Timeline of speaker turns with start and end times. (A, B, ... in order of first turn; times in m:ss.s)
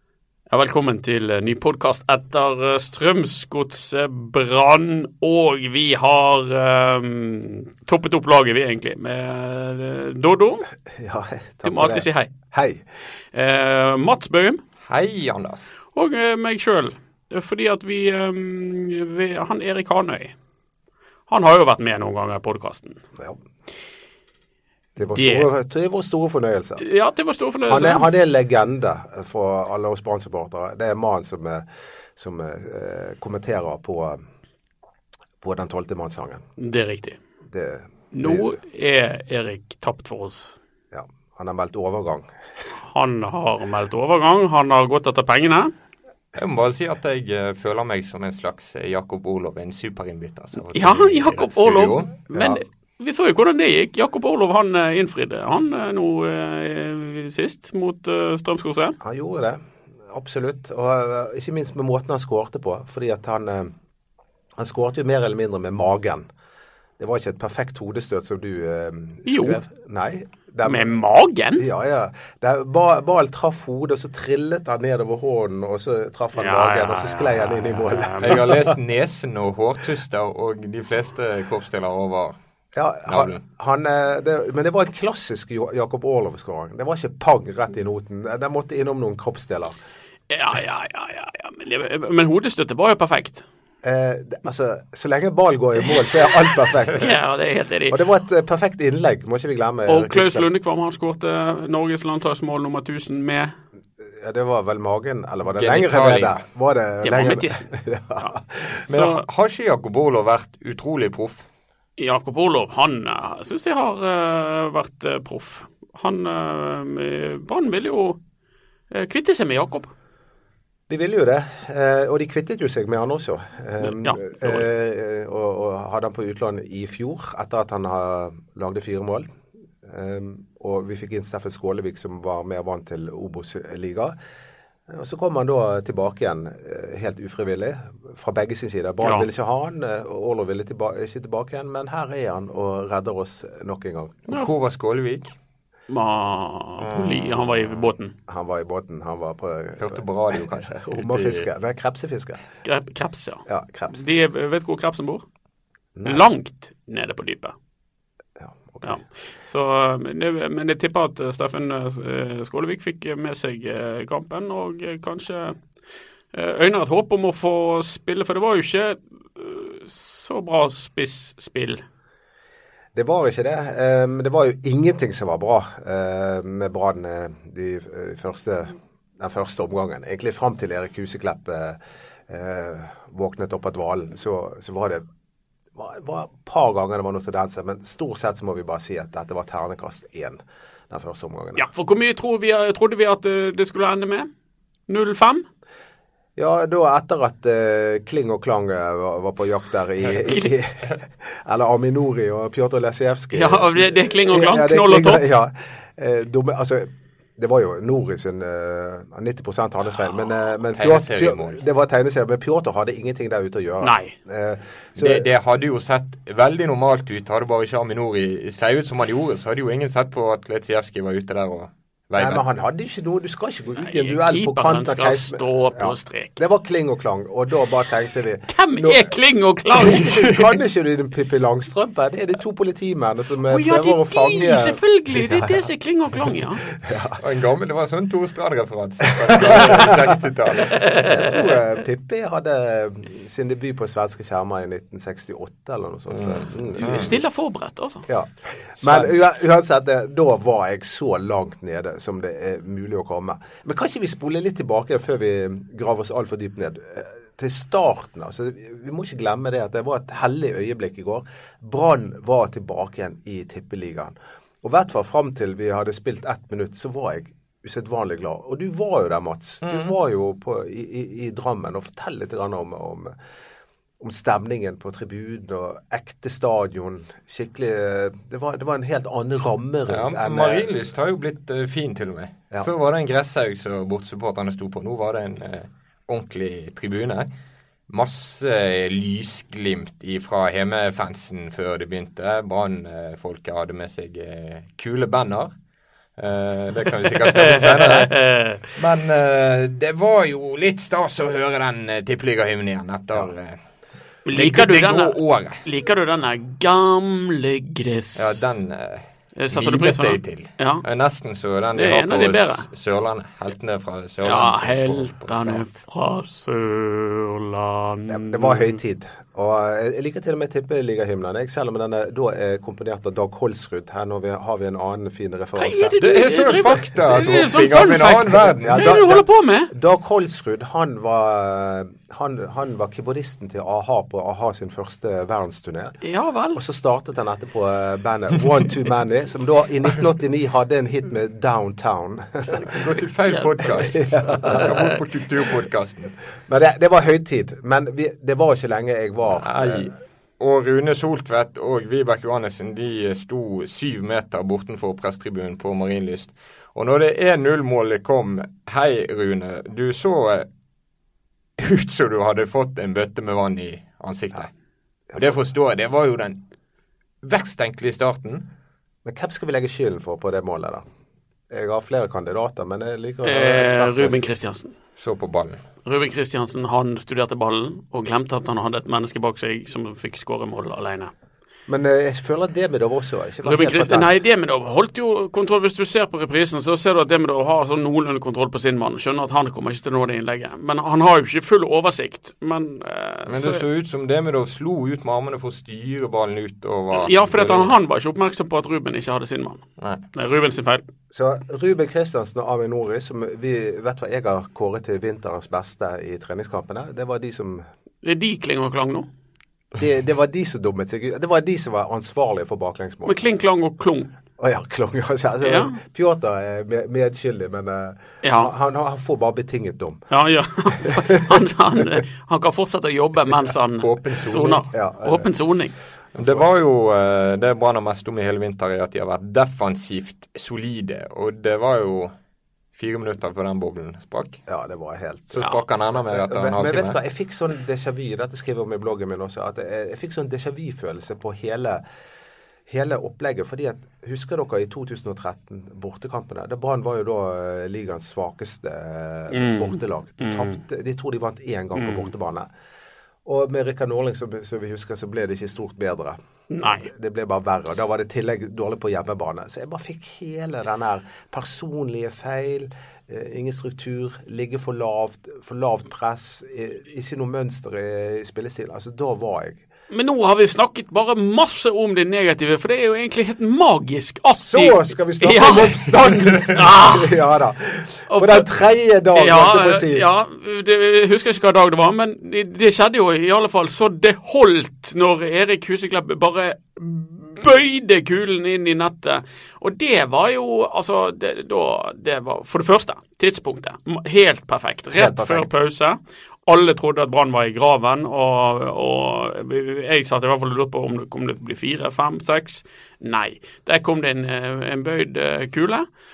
0:00.5-0:10.7 A
0:10.9-0:12.8 B
0:11.6-0:12.3 A
0:13.3-0:14.6 A
0:14.9-0:15.7 C
0:16.0-0:20.4 A
0:21.3-0:23.0 A
0:25.0-0:26.8 B
0:25.2-0:25.5 A
0:26.8-0:28.1 A
0:27.7-0:34.2 B
0:35.4-0:36.4 B
0:36.6-0:37.2 A
0:37.5-0:38.6 B
0:38.1-0:40.6 A
0:40.9-0:42.3 B
0:42.8-0:45.7 A
0:46.4-0:52.1 C
0:50.7-0:59.0 A
0:52.3-0:52.6 B
0:59.0-1:03.7 B
1:04.6-1:06.3 B
1:07.0-1:10.9 B
1:09.3-1:09.6 A
1:10.6-1:11.7 A
1:11.6-1:18.7 B
1:16.4-1:18.4 A
1:18.2-1:22.4 C
1:22.8-1:29.8 B
1:23.1-1:23.4 C
1:30.3-1:33.4 A
1:33.8-1:37.1 B
1:36.9-1:38.0 A
1:37.9-1:40.5 B
1:39.9-1:43.5 A
1:44.0-1:48.8 B
1:45.6-1:46.4 C
1:47.0-1:48.3 A
1:48.9-1:51.5 C
1:48.9-1:49.2 A
1:52.0-1:58.2 A
1:58.9-1:59.9 A
2:00.9-2:09.3 B
2:03.8-2:04.7 A
2:09.8-2:14.2 B
2:14.9-2:24.2 B
2:19.0-2:19.3 A
2:24.3-2:25.3 C
2:25.9-2:28.1 A
2:26.8-2:27.6 C
2:28.3-2:32.4 B
2:29.8-2:31.5 C
2:32.6-2:35.2 A
2:33.5-2:34.0 B
2:36.0-2:36.2 B
2:36.0-2:37.6 A
2:38.4-2:39.0 B
2:38.8-2:45.6 A
2:46.3-2:51.8 A
2:53.0-3:05.0 B
3:05.8-3:11.7 B
3:11.6-3:14.3 A
3:14.9-3:15.4 A
3:16.4-3:35.2 B
3:23.3-3:25.3 A
3:30.8-3:31.6 C
3:33.8-3:34.2 A
3:35.0-3:42.4 C
3:42.2-3:49.1 B
3:43.8-3:46.4 A
3:48.5-3:50.4 A
3:49.8-3:55.5 B
3:53.5-3:56.6 A
3:56.8-3:57.2 B
3:57.2-4:00.8 C
3:59.2-4:00.1 B
4:00.8-4:01.1 A
4:00.9-4:07.1 B
4:06.1-4:07.2 C
4:06.8-4:08.1 A
4:08.1-4:33.1 B
4:29.6-4:30.0 C
4:34.0-4:40.7 B
4:39.9-4:47.3 C
4:47.9-4:55.5 C
4:56.2-4:58.2 C
4:57.1-4:58.7 A
4:58.7-5:03.6 C
5:04.2-5:08.5 A
5:04.3-5:05.6 C
5:08.2-5:15.7 C
5:09.4-5:10.8 A
5:11.8-5:12.7 A
5:14.2-5:18.8 A
5:18.1-5:26.0 B
5:25.6-5:29.7 A
5:26.0-5:29.0 C
5:28.3-5:36.0 B
5:36.0-5:36.6 A
5:36.6-5:42.9 B
5:42.7-5:46.1 C
5:43.0-5:45.0 A
5:43.9-5:44.9 B
5:46.5-5:49.9 B
5:49.3-6:00.5 C
6:01.6-6:04.5 C
6:05.2-6:06.4 C
6:07.2-6:08.5 C
6:09.0-6:10.8 B
6:11.5-6:14.2 B
6:13.2-6:14.7 A
6:15.0-6:15.6 C
6:15.8-6:21.1 A
6:21.7-6:24.1 B
6:23.4-6:33.6 A
6:33.3-6:37.8 C
6:36.9-6:40.9 A
6:39.8-6:40.0 C
6:41.1-6:47.6 B
6:48.0-6:49.1 A
6:49.8-6:53.2 B
6:53.0-6:54.1 A
6:54.4-7:00.0 B
6:55.4-6:55.8 A
6:58.2-6:58.5 A
7:00.1-7:05.8 A
7:00.8-7:01.4 B
7:03.8-7:04.7 C
7:04.7-7:05.3 B
7:06.2-7:12.1 C
7:06.2-7:06.4 B
7:12.8-7:14.4 C
7:14.5-7:15.5 B
7:15.3-7:17.0 C
7:16.1-7:21.8 B
7:22.7-7:32.5 B
7:29.3-7:30.6 A
7:31.8-7:32.1 A
7:33.2-7:49.6 B
7:36.5-7:36.9 A
7:49.9-7:57.2 A
7:54.3-8:00.1 B
7:58.1-7:58.5 A
7:59.1-8:25.9 A
8:14.9-8:15.5 B